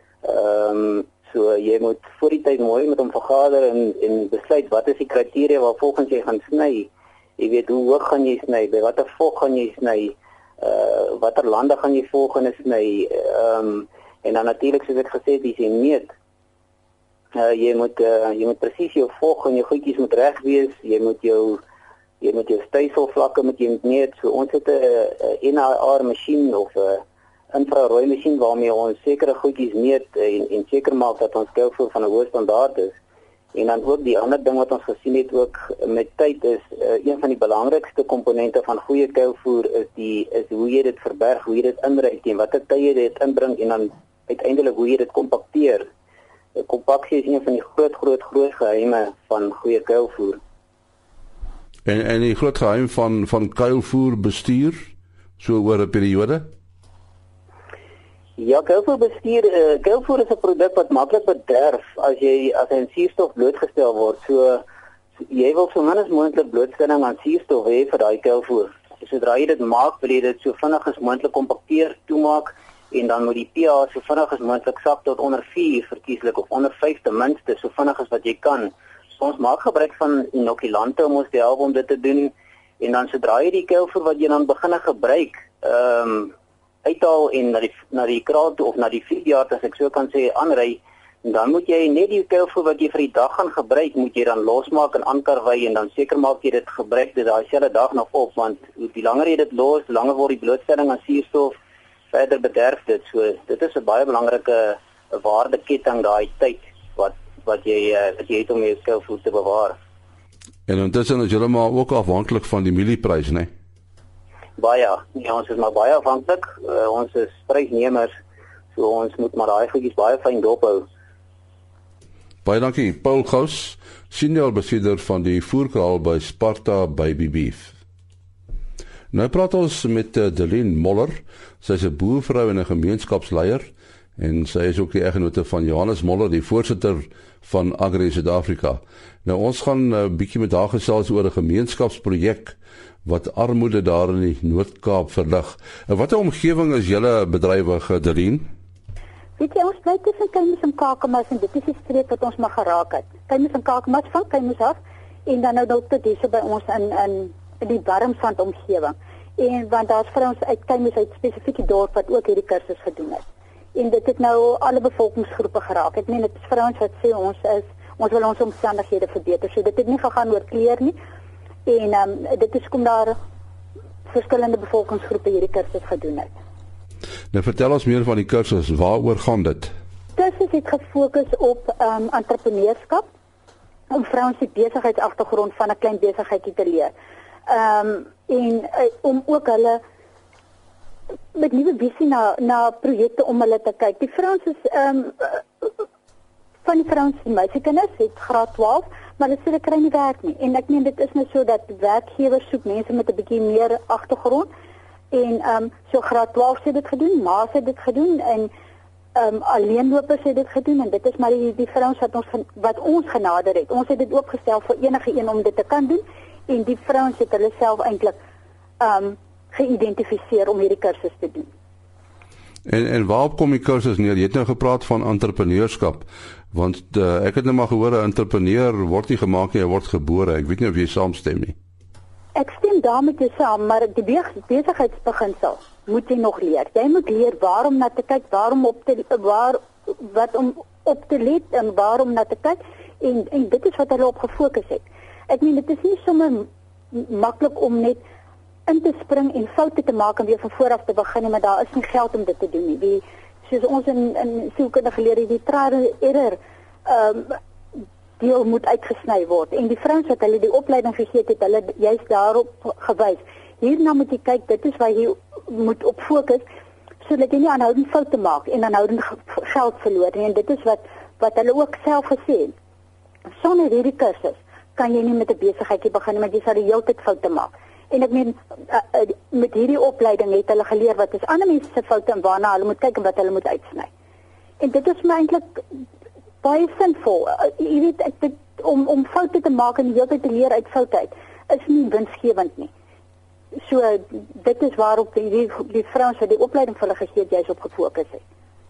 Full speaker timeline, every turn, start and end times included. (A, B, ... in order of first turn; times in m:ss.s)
0:00.2-0:16.1 A
0:17.4-0:21.6 A
0:22.2-0:33.0 A
0:33.5-0:45.9 A
0:46.6-0:50.4 A
0:51.9-0:54.9 B
0:55.4-0:56.5 B
0:58.4-1:04.6 A
1:05.3-1:26.3 A
1:26.8-1:41.6 A
1:42.1-1:49.8 A
1:50.7-1:53.5 B
1:54.6-1:58.1 A
1:58.7-2:00.9 A
2:02.4-2:07.7 B
2:09.1-2:28.4 B
2:29.4-2:43.2 C
2:43.8-2:51.0 C
2:51.7-2:53.2 C
2:54.1-2:56.3 C
2:57.3-2:59.7 B
3:00.2-3:03.1 C
3:03.9-3:06.9 C
3:07.5-3:09.8 C
3:11.3-3:15.7 C
3:16.6-3:24.5 C
3:25.1-3:28.5 C
3:29.2-3:38.2 C
3:38.8-3:41.5 C
3:42.7-3:51.6 B
3:52.4-4:08.0 C
4:08.7-4:17.4 C
4:18.2-4:26.4 C
4:27.0-4:32.5 C
4:33.4-4:43.9 C
4:44.6-4:45.6 C
4:46.4-4:52.7 C
4:53.6-4:58.2 C